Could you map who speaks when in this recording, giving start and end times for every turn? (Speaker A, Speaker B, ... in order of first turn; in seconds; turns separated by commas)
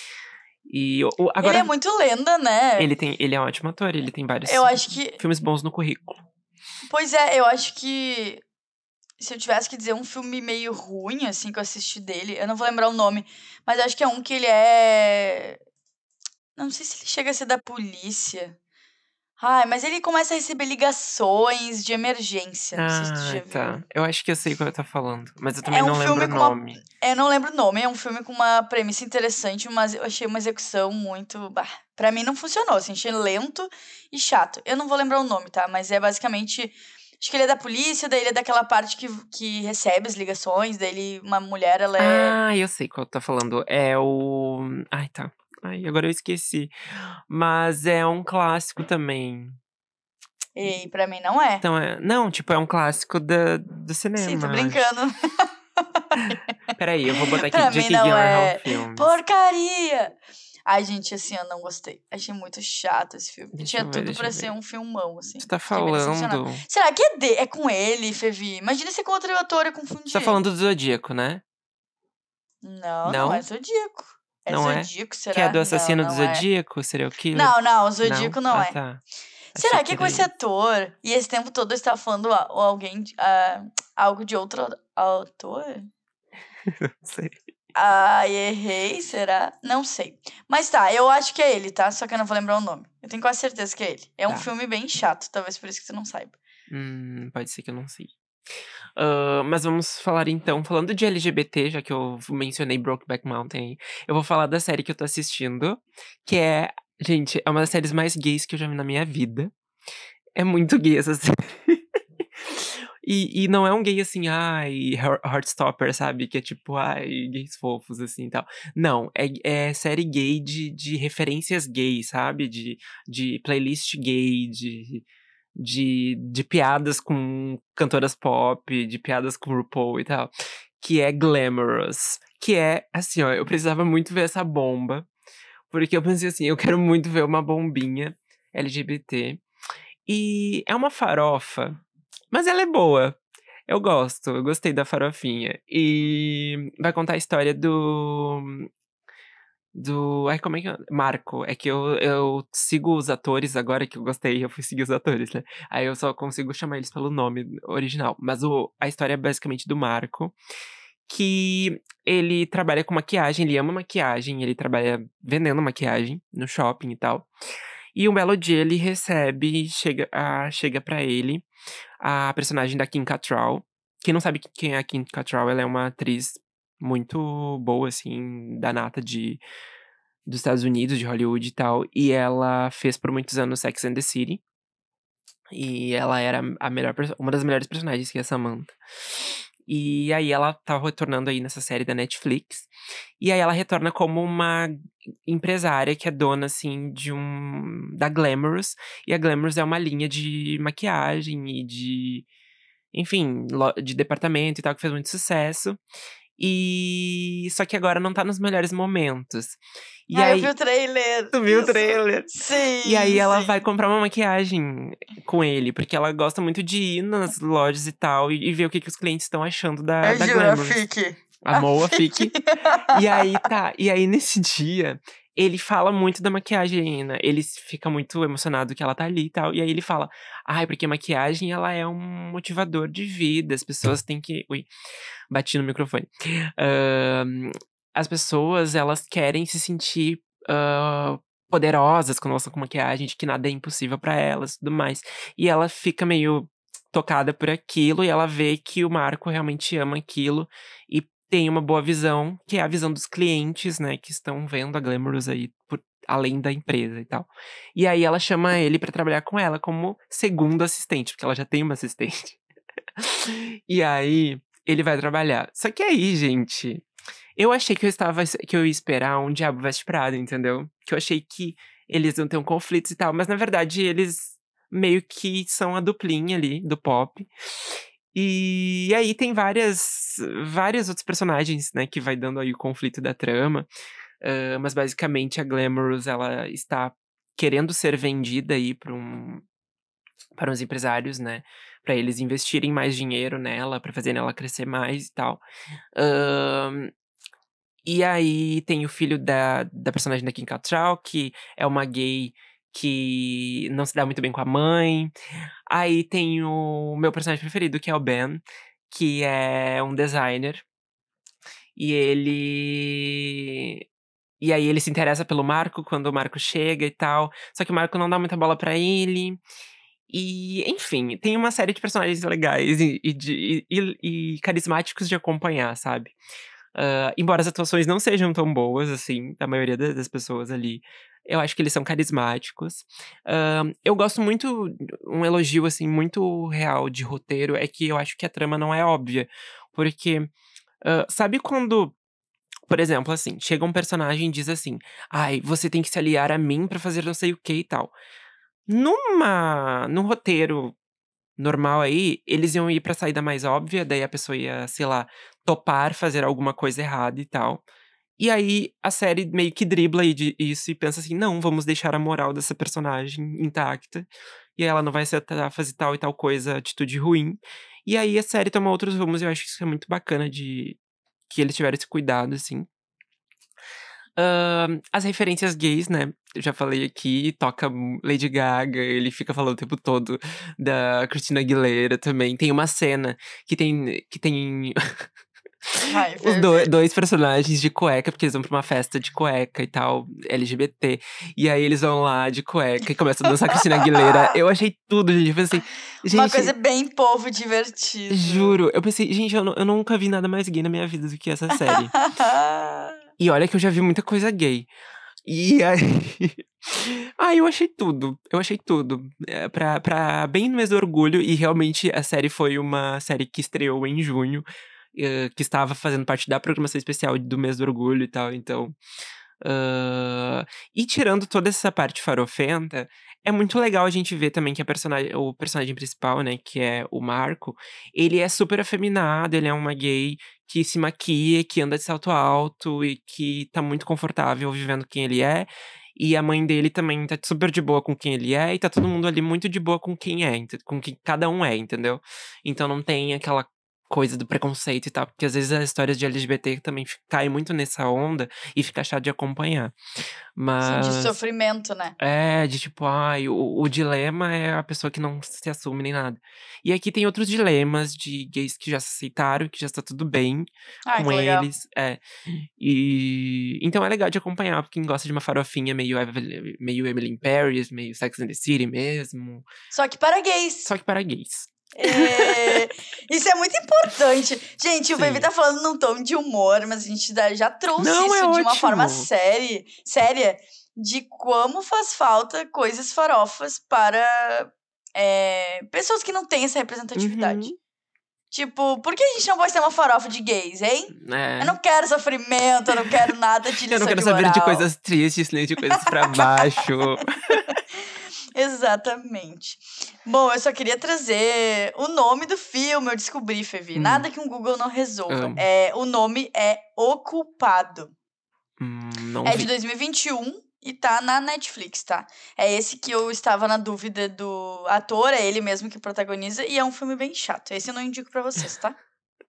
Speaker A: 0.7-1.7, Speaker B: 1.4-2.9, Speaker A: 2.8-6.2, Speaker B: 4.5-5.2, Speaker B: 6.9-8.4, Speaker B: 9.2-15.6, Speaker B: 16.6-18.6, Speaker B: 19.4-23.8, Speaker A: 22.8-26.8, Speaker B: 25.7-42.4, Speaker A: 42.0-46.7, Speaker A: 47.3-49.6, Speaker B: 50.6-51.6, Speaker A: 51.6-54.9, Speaker B: 54.2-56.4, Speaker A: 56.2-59.1, Speaker B: 57.1-60.1, Speaker B: 60.7-70.4, Speaker A: 63.5-64.5, Speaker A: 65.4-66.6, Speaker A: 70.1-71.4, Speaker B: 72.6-76.5, Speaker A: 73.0-73.5, Speaker A: 74.5-79.0, Speaker B: 77.3-78.8, Speaker A: 79.5-80.3, Speaker B: 79.5-85.9, Speaker A: 86.7-87.4, Speaker B: 87.8-96.4, Speaker A: 96.7-98.1, Speaker A: 99.0-109.5, Speaker A: 110.4-135.1, Speaker A: 135.7-139.4, Speaker A: 140.1-141.8, Speaker A: 142.3-148.7, Speaker A: 149.8-160.4, Speaker A: 161.1-167.3, Speaker A: 167.9-171.5, Speaker A: 172.0-179.4, Speaker A: 180.3-184.4, Speaker A: 185.5-194.7, Speaker A: 195.2-202.3, Speaker A: 202.9-205.8, Speaker A: 206.4-210.5, Speaker B: 210.1-213.6, Speaker A: 211.3-220.8, Speaker B: 220.0-223.2, Speaker A: 221.4-234.7, Speaker A: 235.3-262.4, Speaker A: 263.0-266.9, Speaker A: 267.4-283.7, Speaker A: 284.2-289.4, Speaker A: 290.4-295.4, Speaker A: 296.0-296.9, Speaker A: 297.9-305.1, Speaker A: 305.7-310.6, Speaker A: 311.8-313.9, Speaker A: 314.4-319.4, Speaker A: 320.1-326.1, Speaker A: 326.8-340.3, Speaker A: 340.8-342.0, Speaker A: 342.7-347.9, Speaker A: 348.7-350.8, Speaker A: 351.4-357.6, Speaker A: 358.2-370.8, Speaker A: 371.3-372.7, Speaker A: 374.2-385.1, Speaker A: 385.7-396.5, Speaker B: 385.9-386.7, Speaker B: 393.8-394.3, Speaker B: 396.1-398.6, Speaker A: 398.1-401.9, Speaker B: 401.6-403.0, Speaker A: 403.2-404.7, Speaker A: 405.3-418.8, Speaker A: 419.4-449.8, Speaker A: 450.4-451.2, Speaker B: 450.6-452.0, Speaker A: 452.0-469.5, Speaker B: 460.9-461.5, Speaker B: 469.7-470.7, Speaker A: 470.7-472.6, Speaker B: 471.8-487.5, Speaker A: 475.0-475.3, Speaker A: 477.8-479.1, Speaker A: 487.0-487.6, Speaker B: 488.3-494.7, Speaker A: 490.9-491.6, Speaker A: 493.7-497.6, Speaker B: 495.8-496.7, Speaker B: 497.5-507.9, Speaker A: 503.8-504.1, Speaker A: 505.1-505.4, Speaker A: 508.6-509.5, Speaker B: 509.2-518.8